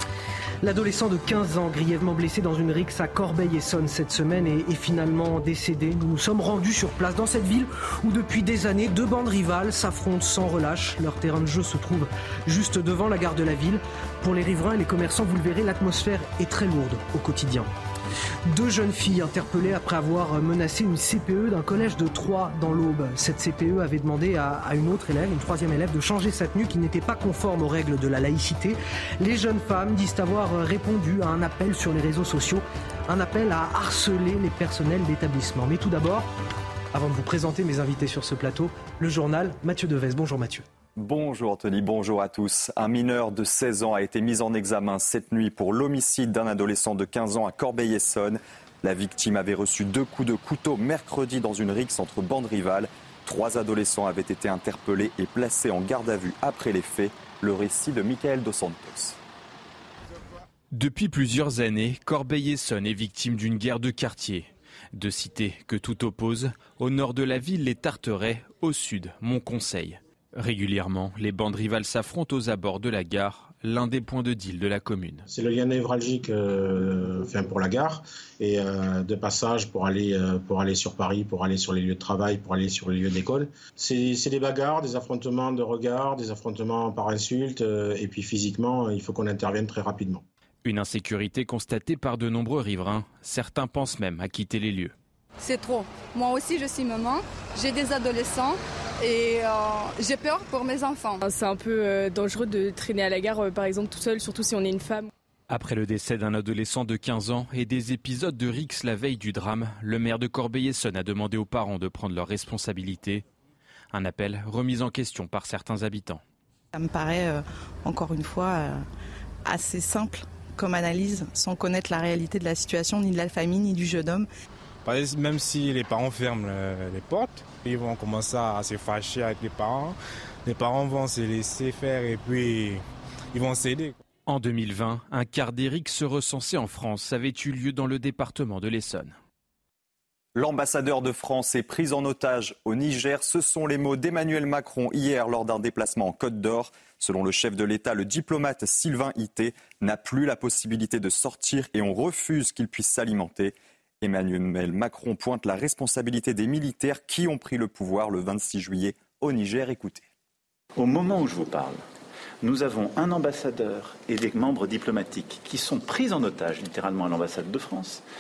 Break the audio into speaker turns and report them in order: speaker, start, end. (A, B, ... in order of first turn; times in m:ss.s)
0:00.6-0:17.7 A
0:18.5-0:36.3 A
0:36.9-0:40.6 A
0:41.0-0:59.2 B
1:00.7-1:15.2 C
1:15.3-1:30.2 D
1:30.6-1:34.9 C
1:35.4-1:41.2 E
1:41.2-1:45.1 F
1:45.5-1:53.2 C
1:53.9-1:56.2 C
1:56.7-1:58.8 G
1:59.5-2:04.3 G
2:04.8-2:14.0 H
2:14.3-2:19.2 C
2:20.4-2:40.1 B
2:40.8-2:41.8 I
2:42.4-2:48.0 I